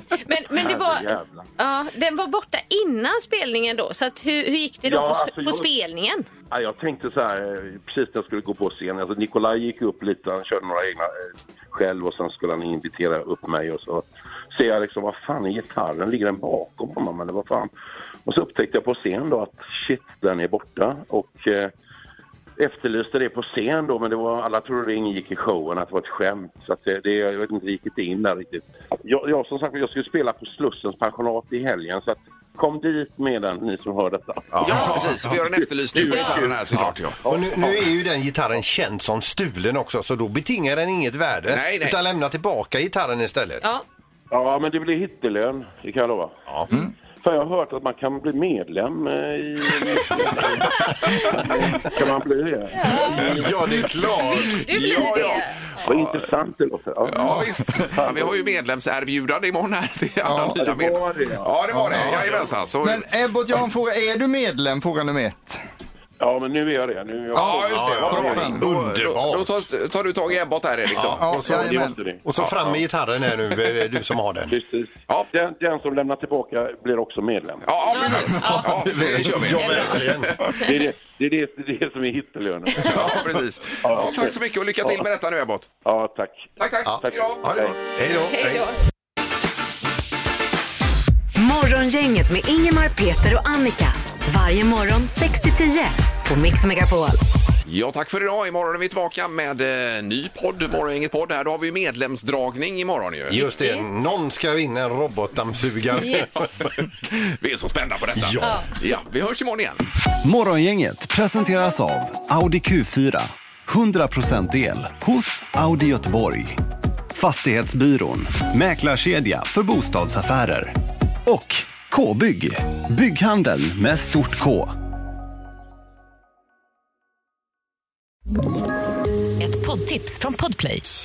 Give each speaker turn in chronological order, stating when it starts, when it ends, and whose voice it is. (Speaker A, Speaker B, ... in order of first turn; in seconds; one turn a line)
Speaker A: 0.2-6.2
Speaker B: 0.6-1.4
Speaker B: 4.8-5.7
Speaker B: 6.5-17.7
Speaker B: 18.2-21.7
Speaker B: 22.6-37.8
Speaker C: 34.5-35.3
Speaker D: 34.6-37.2
Speaker A: 36.1-36.4
Speaker C: 36.7-43.6
Speaker D: 41.5-42.0
Speaker B: 44.3-46.4
Speaker B: 47.2-52.8
Speaker A: 52.7-53.3
Speaker C: 53.0-54.7
Speaker A: 54.0-55.6
Speaker D: 54.5-56.2
Speaker B: 55.8-58.3
Speaker D: 57.0-63.0
Speaker E: 57.3-57.8
Speaker E: 60.2-60.6
Speaker B: 60.5-62.5
Speaker E: 62.8-65.6
Speaker B: 66.2-68.5
Speaker E: 67.3-68.6
Speaker D: 67.3-71.2
Speaker C: 67.6-69.5
Speaker C: 70.9-74.5
Speaker E: 71.2-72.0
Speaker B: 71.4-72.2
Speaker D: 72.3-72.8
Speaker B: 74.5-77.7
Speaker D: 77.6-80.4
Speaker A: 77.9-78.8
Speaker E: 78.3-79.4
Speaker C: 79.0-80.4
Speaker A: 79.5-80.0
Speaker B: 80.5-83.2
Speaker D: 82.8-85.7
Speaker B: 83.8-85.0
Speaker B: 85.8-87.7
Speaker D: 86.6-87.7
Speaker C: 86.8-88.7
Speaker A: 88.3-88.7
Speaker F: 91.4-97.2
Speaker D: 97.7-103.5
Speaker C: 103.3-106.7
Speaker A: 103.4-103.9
Speaker A: 106.0-106.5
Speaker D: 107.4-109.8
Speaker C: 108.2-108.6
Speaker G: 110.2-116.6
Speaker G: 117.2-120.7
Speaker G: 121.3-124.7
Speaker F: 129.4-130.8